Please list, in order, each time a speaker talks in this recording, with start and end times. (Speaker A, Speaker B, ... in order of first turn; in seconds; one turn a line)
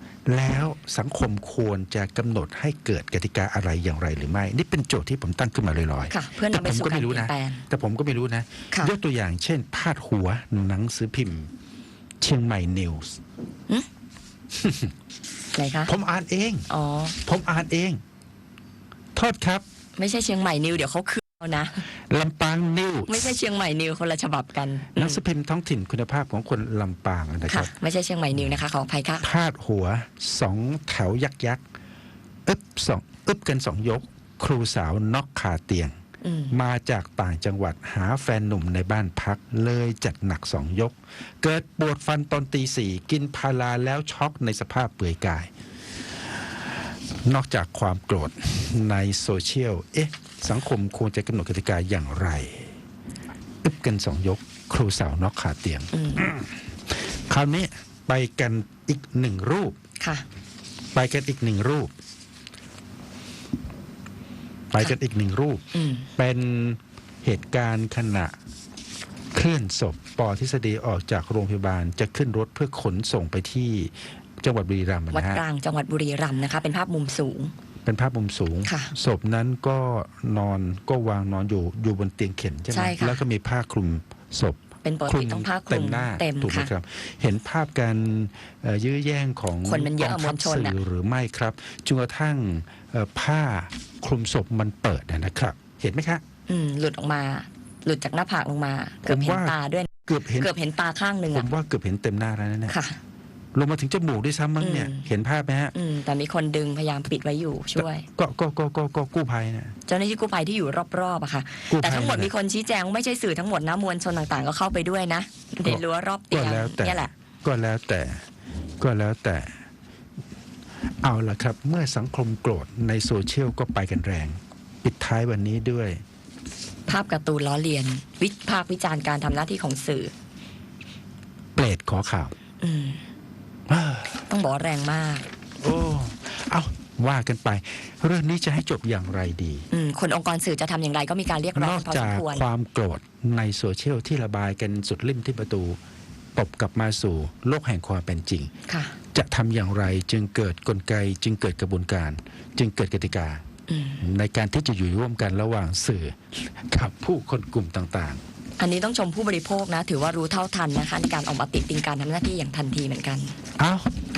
Speaker A: 0.3-11.5
Speaker B: 6.1-7.7
Speaker A: 12.2-13.2
Speaker A: 14.6-14.9
Speaker B: 15.6-15.9
Speaker A: 15.9-18.0
Speaker B: 16.7-17.2
Speaker A: 19.1-19.6
Speaker B: 20.0-21.9
Speaker A: 22.1-23.3
Speaker B: 23.1-25.2
Speaker A: 24.9-27.7
Speaker B: 27.5-29.3
Speaker A: 29.2-31.6
Speaker A: 32.5-36.0
Speaker B: 36.2-36.5
Speaker A: 36.5-45.5
Speaker A: 47.2-52.7
Speaker A: 53.6-59.8
Speaker B: 55.9-56.3
Speaker B: 60.0-60.2
Speaker A: 60.9-61.9
Speaker A: 64.7-65.7
Speaker B: 65.7-66.1
Speaker A: 66.2-68.3
Speaker A: 69.3-75.4
Speaker B: 75.1-77.5
Speaker A: 77.8-96.2
Speaker B: 78.7-78.9
Speaker B: 82.7-83.2
Speaker B: 84.8-86.7
Speaker B: 89.6-90.8
Speaker B: 96.5-101.5
Speaker A: 99.0-100.5
Speaker A: 101.3-102.8
Speaker B: 102.7-103.0
Speaker A: 103.5-105.8
Speaker B: 104.6-105.1
Speaker B: 105.7-108.1
Speaker A: 107.8-109.8
Speaker B: 109.9-117.1
Speaker A: 111.7-112.3
Speaker A: 115.6-118.3
Speaker A: 118.8-119.6
Speaker A: 121.0-126.0
Speaker B: 126.9-130.1
Speaker A: 131.6-132.3
Speaker B: 132.6-133.0
Speaker A: 133.7-134.3
Speaker B: 134.3-135.3
Speaker A: 135.6-139.7
Speaker B: 139.7-142.4
Speaker A: 141.6-145.8
Speaker A: 146.4-148.5
Speaker B: 148.7-149.0
Speaker A: 149.1-153.4
Speaker B: 153.7-154.0
Speaker A: 154.0-158.2
Speaker B: 158.6-163.4
Speaker A: 163.6-163.9